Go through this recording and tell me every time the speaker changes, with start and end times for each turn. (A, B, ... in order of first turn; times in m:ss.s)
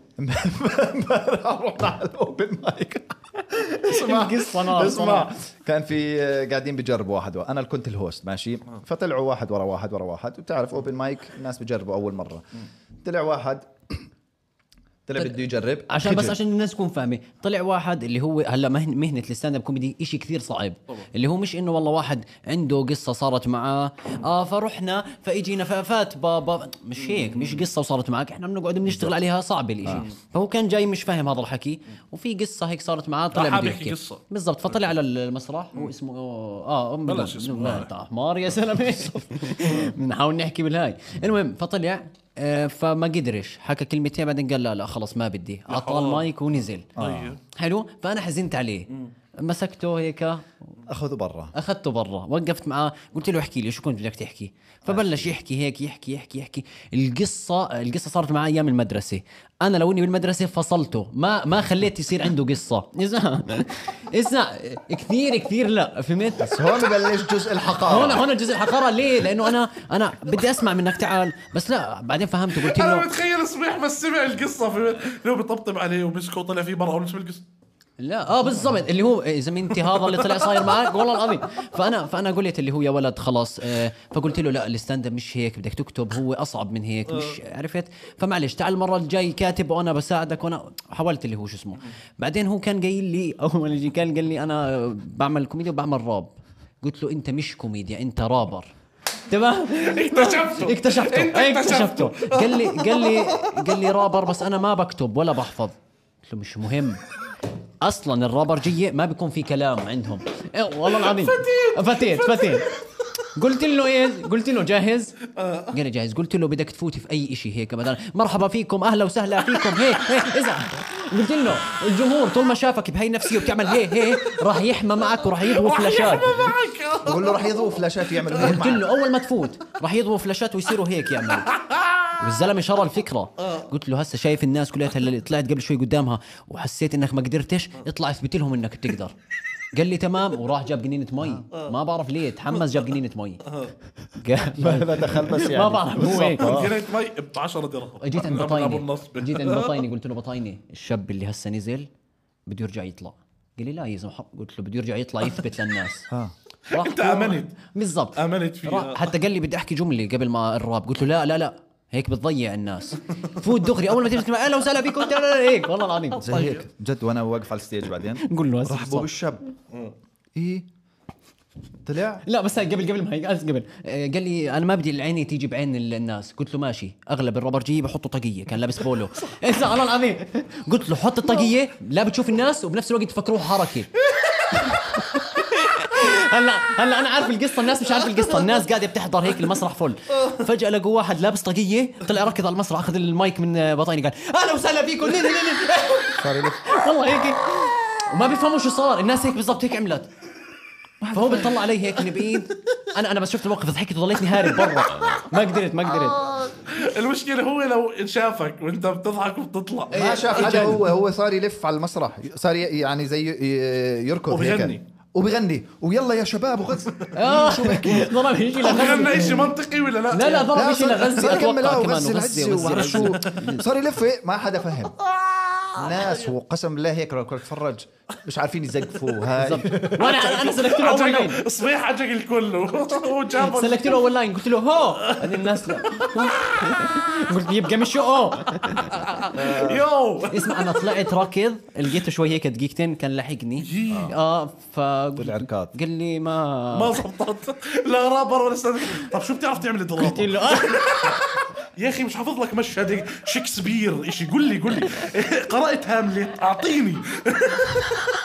0:00.2-0:12.5 A
0:03.8-0:05.3 B
0:13.0-0:14.1 A
0:15.1-0:16.4 A
0:15.2-0:46.9 B
0:27.0-0:27.7 C
0:29.9-0:30.1 C
0:33.3-0:34.8 C
0:37.1-0:37.9 C
0:39.6-0:39.9 C
0:45.7-0:46.3 C
0:47.0-0:47.4 C
0:47.0-0:47.4 A
0:47.5-0:50.5 B
0:50.9-0:51.5 A
0:51.6-1:06.6 B
0:54.8-0:55.4 A
1:06.4-1:08.2 A
1:07.8-1:13.1 B
1:12.5-1:17.4 C
1:18.0-1:38.7 B
1:19.7-1:20.8 C
1:27.1-1:27.4 C
1:39.3-1:47.0 B
1:39.8-1:43.7 C
1:47.8-1:52.7 B
1:50.9-1:52.8 C
1:53.3-1:55.2 B
1:55.4-1:55.8 C
1:55.7-2:06.6 B
2:05.2-2:07.6 C
2:07.0-2:08.9 A
2:08.2-2:08.6 C
2:08.4-2:11.6 B
2:11.5-2:12.2 C
2:12.2-2:19.2 B
2:13.4-2:13.7 C
2:19.7-2:23.5 B
2:23.5-2:23.7 C
2:24.2-2:26.7 B
2:24.5-2:26.8 A
2:26.0-2:29.8 C
2:28.0-2:31.9 B
2:32.5-2:36.1 B
2:36.7-2:39.1 C
2:36.7-2:46.5 B
2:46.2-2:49.5 A
2:46.3-2:46.6 C
2:48.2-2:49.1 B
2:50.4-2:50.7 A
2:51.8-2:52.2 A
2:52.2-3:03.9 B
3:04.5-3:20.1 B
3:16.2-3:16.8 A
3:21.0-3:21.5 A
3:21.1-3:26.3 B
3:24.6-3:25.2 C
3:26.2-3:30.8 C
3:29.9-3:38.2 A
3:29.9-3:30.8 B
3:34.3-3:34.8 C
3:37.1-3:39.6 B
3:38.6-3:40.6 C
3:40.1-3:43.6 B
3:40.5-3:45.0 A
3:42.6-3:43.5 C
3:45.0-3:46.3 C
3:45.8-3:50.2 A
3:49.4-3:51.4 B
3:50.0-3:54.1 C
3:53.4-3:59.0 B
3:55.0-3:57.3 C
3:58.7-4:00.9 C
3:59.3-3:59.9 A
4:00.3-4:07.0 B
4:03.6-4:04.2 C
4:03.9-4:04.2 A
4:05.2-4:05.8 A
4:06.7-4:18.1 C
4:10.0-4:11.2 B